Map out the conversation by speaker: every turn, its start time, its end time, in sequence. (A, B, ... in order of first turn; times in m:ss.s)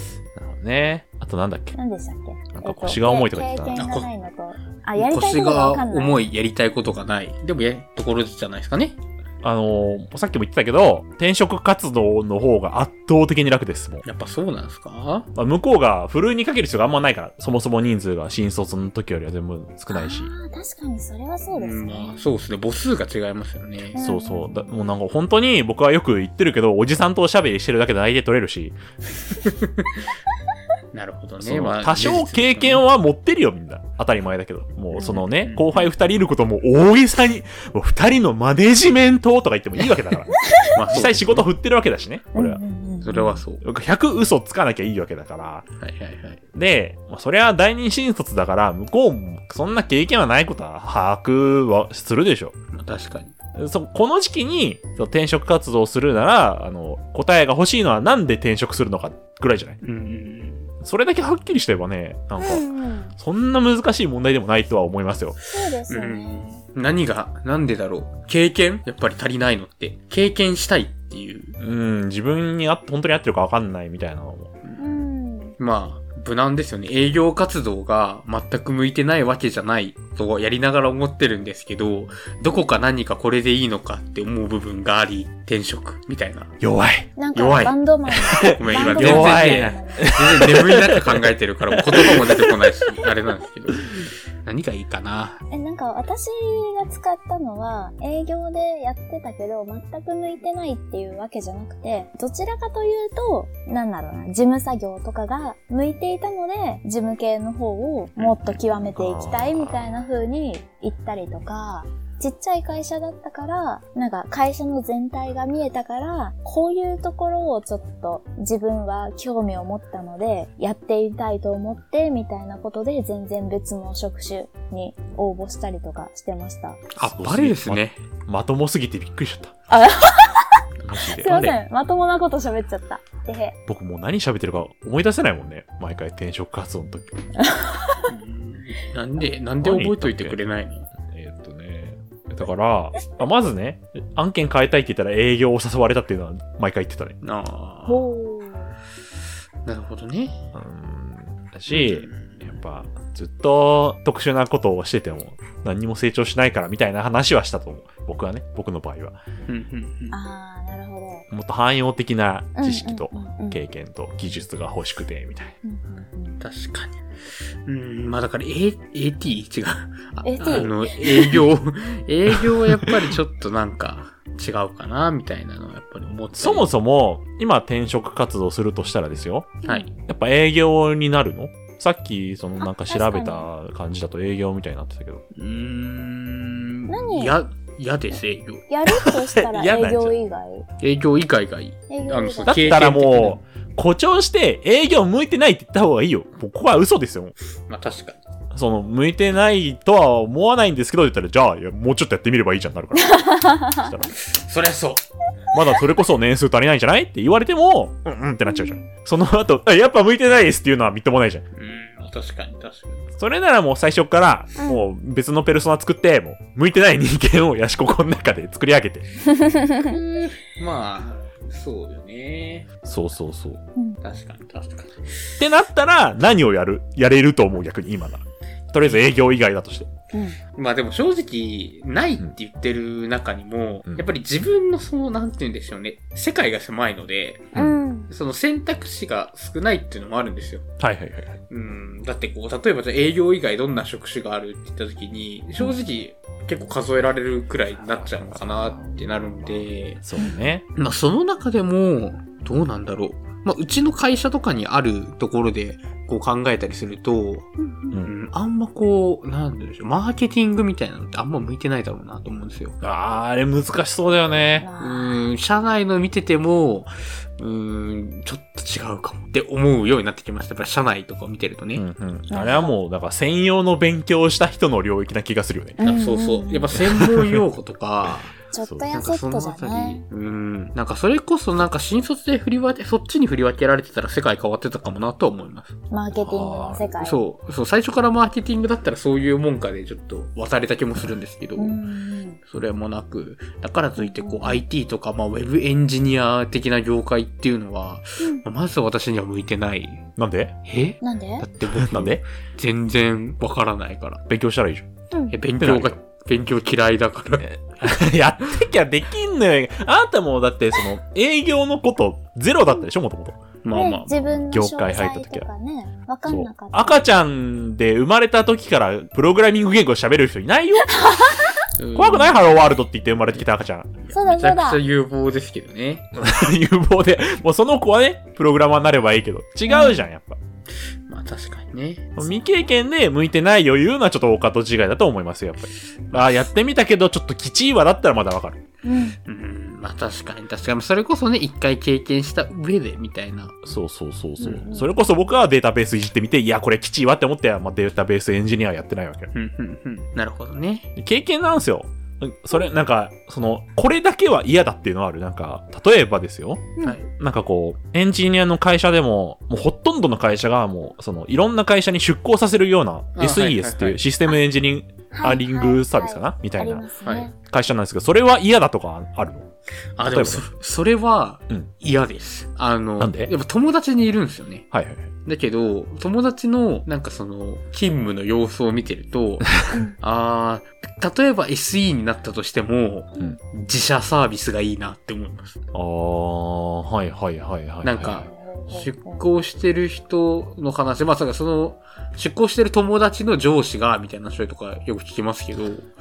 0:00.4-0:01.8 A
0:01.8-0:06.2 B
0:02.5-0:03.8 A
0:03.8-0:04.1 C
0:05.0-0:09.0 C
0:09.4-0:14.0 A
0:14.0-0:15.3 C
0:15.4-0:20.3 A
0:19.9-0:22.3 B
0:21.5-0:24.0 C
0:23.9-0:24.9 B
0:24.0-0:28.8 A
0:29.4-0:30.0 C
0:30.9-0:32.8 C
0:31.4-0:42.6 A
0:35.0-0:35.2 B
0:35.2-0:35.7 C
0:40.4-0:40.7 B
0:40.7-0:41.5 C
0:42.3-0:43.4 B
0:43.0-0:43.6 C
0:43.6-0:45.7 A
0:45.8-0:46.4 C
0:46.5-0:52.6 A
0:52.7-0:53.3 C
0:53.6-0:59.8 A
0:59.8-1:00.7 C
1:00.8-1:02.7 A
1:02.4-1:03.1 B
1:03.2-1:05.4 A
1:05.5-1:06.6 B
1:05.9-1:11.6 C
1:11.6-1:14.5 A
1:14.8-1:15.5 B
1:15.6-1:26.6 C
1:26.6-1:27.1 A
1:27.2-1:30.2 B
1:27.4-1:27.8 C
1:28.3-1:35.4 C
1:28.3-1:32.8 A
1:35.5-2:06.8 B
1:48.2-1:48.5 C
1:48.9-1:49.8 A
2:07.0-2:08.0 C
2:07.0-2:09.5 A
2:09.7-2:13.6 B
2:10.8-2:11.6 A
2:13.7-2:17.2 A
2:17.4-2:18.1 B
2:18.1-2:20.9 C
2:19.6-2:20.4 A
2:21.1-2:27.2 A
2:27.2-2:28.1 C
2:27.9-2:28.7 B
2:29.6-2:30.4 C
2:30.5-2:39.2 A
2:31.7-2:32.5 C
2:39.5-2:40.2 C
2:40.1-2:41.2 B
2:41.3-2:45.6 A
2:42.6-2:43.6 B
2:45.6-2:46.4 B
2:46.4-2:47.0 C
2:47.7-2:56.7 C
2:50.2-2:51.4 B
2:52.4-2:53.1 A
2:56.4-3:05.2 A
3:02.6-3:03.5 B
3:05.4-3:08.6 C
3:06.9-3:07.4 B
3:08.7-3:10.7 B
3:08.9-3:10.2 A
3:10.8-3:13.4 C
3:11.9-3:12.8 B
3:12.5-3:17.3 A
3:17.7-3:18.2 C
3:18.5-3:24.1 A
3:23.1-3:23.9 B
3:24.2-3:25.0 C
3:25.5-3:31.4 A
3:28.5-3:28.8 B
3:31.6-3:33.1 C
3:33.2-3:39.0 A
3:34.6-3:34.8 B
3:39.3-3:39.9 B
3:39.8-3:42.7 C
3:42.8-3:43.6 A
3:44.0-3:45.3 C
3:45.4-3:49.9 A
3:50.1-3:50.4 B
3:50.6-4:00.7 C
3:57.6-3:58.1 B
4:00.8-4:01.4 A
4:01.5-4:10.0 C
4:08.0-4:10.6 A
4:10.8-4:22.8 C
4:22.8-4:24.7 A
4:24.6-4:25.3 B
4:24.8-4:31.8 C
4:31.8-4:35.8 A
4:32.3-4:32.7 B
4:35.8-4:36.7 B
4:35.8-4:38.4 C
4:36.8-4:37.4 A
4:38.5-4:40.0 B
4:38.9-4:45.8 C
4:45.9-4:47.2 B
4:46.2-4:46.9 A
4:47.0-4:51.8 C
4:51.6-4:52.4 B
4:52.5-5:00.1 C
4:54.0-4:54.6 B
5:00.2-5:00.6 A
5:00.7-5:04.2 C
5:01.0-5:01.5 B
5:01.6-5:02.2 A
5:04.3-5:04.9 A
5:05.3-5:07.5 C
5:05.6-5:06.0 A
5:07.4-5:13.4 A
5:13.6-5:14.2 C
5:13.7-5:17.1 B
5:14.1-5:15.5 A
5:16.3-5:21.1 A
5:20.9-5:21.7 B
5:21.8-5:22.4 C
5:22.0-5:23.9 A
5:24.0-5:26.1 C
5:24.1-5:24.8 B
5:26.2-5:30.4 A
5:29.7-5:30.1 B
5:31.1-5:32.2 C
5:32.2-5:38.6 A
5:32.2-5:32.7 B
5:38.8-5:39.2 B
5:39.3-5:43.6 C
5:43.6-5:49.3 A
5:44.4-5:44.9 B
5:49.3-5:50.9 C
5:51.0-6:06.9 A
5:56.8-5:57.1 C
6:03.2-6:04.0 C
6:05.1-6:07.3 B
6:07.0-6:07.3 C
6:07.4-6:09.5 A
6:10.0-6:14.7 C
6:10.1-6:10.4 A
6:13.0-6:13.3 A
6:14.7-6:15.1 A
6:15.2-6:25.6 C
6:25.7-6:28.3 A
6:27.8-6:35.9 C
6:28.3-6:29.2 B